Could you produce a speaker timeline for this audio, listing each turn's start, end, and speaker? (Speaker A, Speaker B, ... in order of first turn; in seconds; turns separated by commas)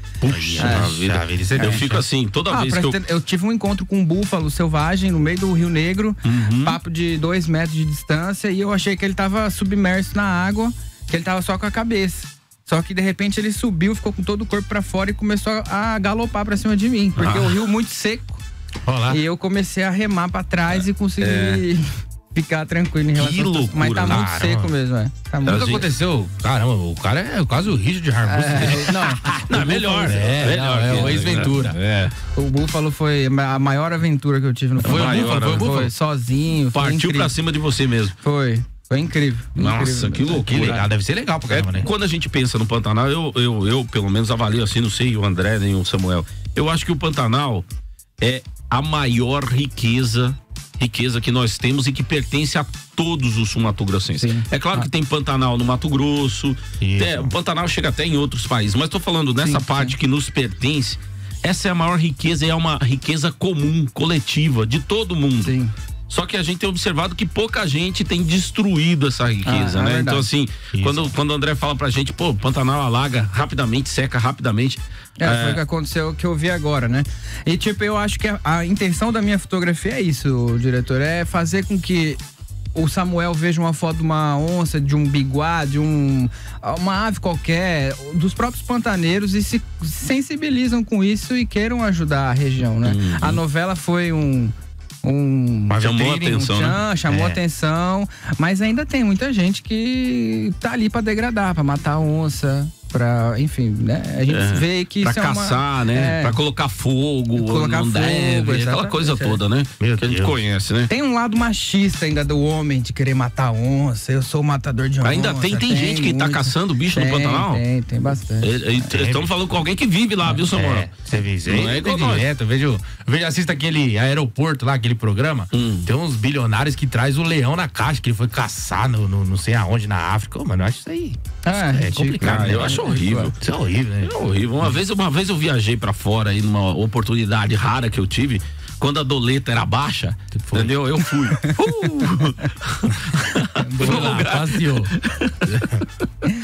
Speaker A: 0.2-3.0, Speaker B: 0.3-2.0, Speaker C: 0.6-0.9, Speaker C: 1.6-1.9, Speaker C: 2.5-18.4, Speaker A: 6.2-6.8, Speaker A: 17.2-17.6, Speaker B: 18.9-19.2, Speaker C: 19.1-25.8, Speaker A: 20.7-21.6, Speaker A: 23.2-24.3, Speaker B: 24.0-24.7, Speaker A: 25.4-25.9, Speaker B: 25.4-29.5, Speaker C: 28.2-30.5, Speaker A: 29.5-32.1, Speaker B: 30.0-31.8, Speaker C: 32.4-37.3, Speaker B: 34.8-35.9, Speaker A: 34.8-35.9, Speaker A: 36.7-38.2, Speaker C: 38.2-40.8, Speaker A: 39.6-40.8, Speaker B: 40.5-41.9, Speaker A: 41.5-47.6, Speaker A: 48.2-65.5, Speaker C: 54.1-54.9, Speaker B: 56.8-57.3, Speaker C: 59.4-60.0, Speaker C: 65.4-65.7, Speaker A: 66.1-75.6, Speaker C: 69.4-70.3, Speaker B: 70.7-71.2, Speaker C: 75.2-82.2, Speaker C: 82.8-106.4, Speaker A: 92.8-93.4, Speaker B: 95.7-96.4, Speaker A: 95.8-96.8, Speaker B: 97.1-97.4, Speaker A: 104.3-110.9, Speaker C: 107.4-109.4, Speaker B: 109.8-110.3, Speaker C: 110.9-118.8, Speaker A: 115.0-117.6, Speaker A: 118.4-120.9, Speaker B: 118.9-119.3, Speaker B: 120.5-132.8, Speaker A: 121.5-122.3, Speaker A: 125.5-125.9, Speaker C: 131.4-133.3, Speaker A: 132.2-133.4, Speaker B: 133.4-134.8, Speaker A: 134.0-145.8, Speaker B: 140.4-140.8, Speaker C: 143.6-144.3, Speaker B: 143.8-144.9, Speaker B: 145.4-145.9